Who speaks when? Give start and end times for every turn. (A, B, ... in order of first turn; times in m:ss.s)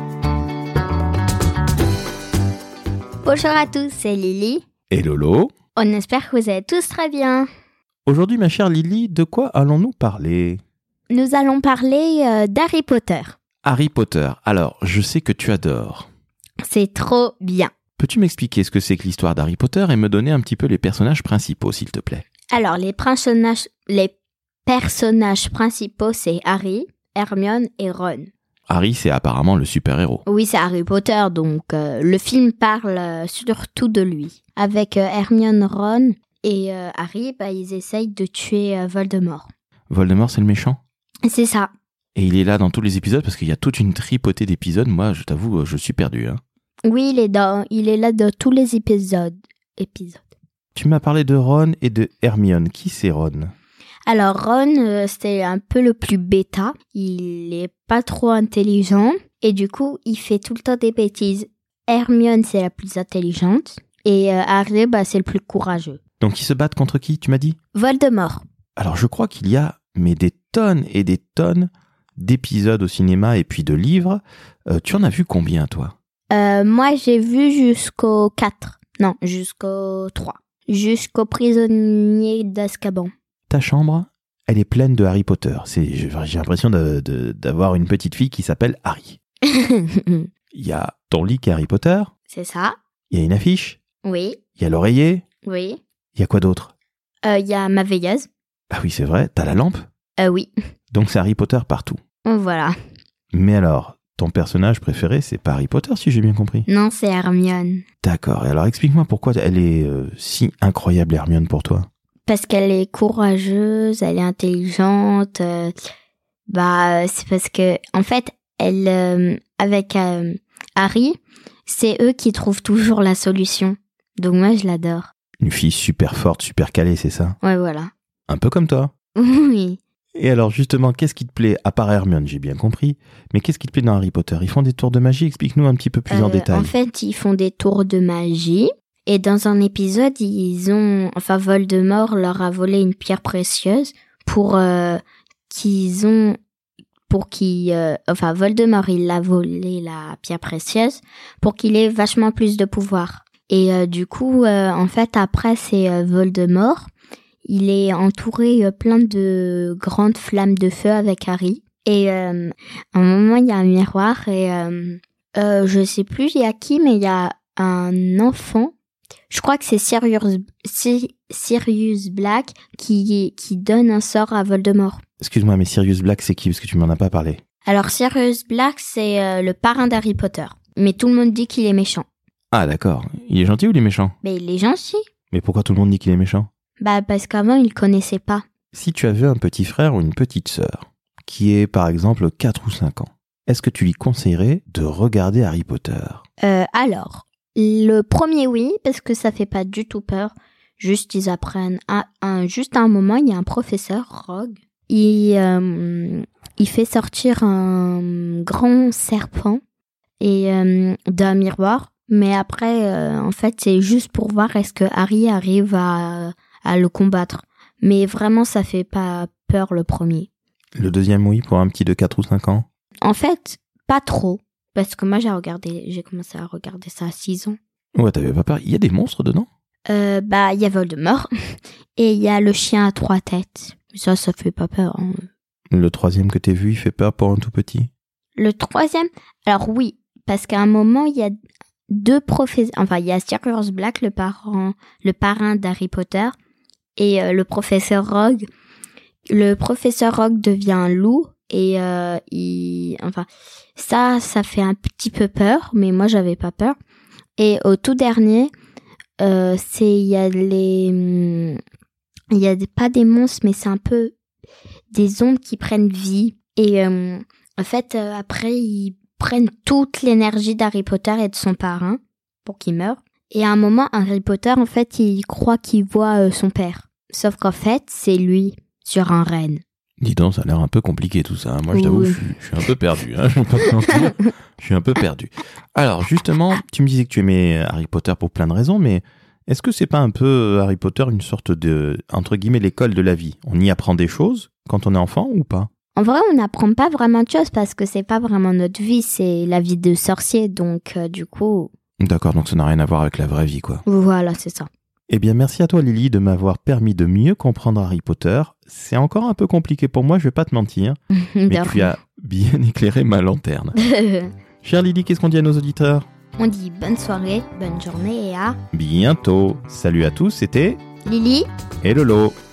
0:03.2-0:04.6 A
0:04.9-0:05.5 B
0:05.8-0:07.5 A
0:08.0-0:10.6 B
0:11.1-0:13.4 A
0:13.6-0:16.1 B
0:16.6-0:17.7 A
0:18.0-0:22.2 B
0:22.5-0:24.1 A
0:24.6-0:28.3 A
0:28.7-0:30.2 B
0:30.2-0:39.5 A
0:39.9-0:40.8 B
0:41.2-0:41.7 A
0:42.1-0:46.4 B
0:46.9-0:50.2 A
0:50.8-0:53.5 B
0:54.1-1:06.0 A
1:06.2-1:07.6 B
1:07.7-1:08.4 A
1:08.8-1:15.9 B
1:16.3-1:23.1 A
1:23.5-1:29.2 B
1:29.4-1:30.3 A
1:30.5-1:32.1 B
1:32.3-1:32.8 A
1:33.1-1:33.8 B
1:34.0-1:34.4 A
1:34.6-1:35.2 B
1:35.4-1:35.8 A
1:36.2-1:36.7 B
1:37.2-1:38.3 A
1:38.7-1:39.8 B
1:40.2-1:40.5 A
1:40.9-1:42.0 B
1:42.2-1:42.8 A
1:43.3-1:46.7 B
1:46.7-1:47.8 A
1:48.0-1:51.9 B
1:52.2-1:55.7 A
1:56.5-2:05.1 A
2:05.4-2:07.4 B
2:07.4-2:07.9 A
2:08.3-2:08.9 B
2:09.2-2:09.8 A
2:10.1-2:16.7 B
2:16.1-2:26.4 A
2:27.1-2:36.9 A
2:37.4-2:48.7 A
2:49.3-2:55.0 A
2:55.2-2:57.4 B
2:57.6-3:02.1 A
3:02.5-3:04.1 B
3:04.2-3:05.0 A
3:05.3-3:06.5 B
3:06.8-3:08.4 A
3:08.7-3:16.2 B
3:16.4-3:29.6 A
3:30.2-3:40.3 A
3:40.8-3:42.6 B
3:43.0-3:47.6 A
3:48.0-3:49.5 B
3:49.9-3:51.3 A
3:52.0-3:55.3 A
3:55.7-3:57.9 B
3:58.4-4:01.3 A
4:01.9-4:06.3 A
4:07.0-4:08.4 A
4:09.3-4:16.8 A
4:17.4-4:18.5 A
4:19.2-4:21.6 A
4:22.3-4:24.1 A
4:24.9-4:39.6 A
4:40.0-4:55.7 B
4:41.7-4:42.2 A
4:55.9-5:01.7 A
5:02.0-5:03.8 B
5:03.8-5:04.7 A
5:05.1-5:13.8 B
5:11.1-5:11.9 A
5:13.8-5:14.3 A
5:14.6-5:16.0 B
5:16.4-5:18.6 A
5:18.7-5:20.8 B
5:21.0-5:21.5 A
5:21.8-5:22.4 B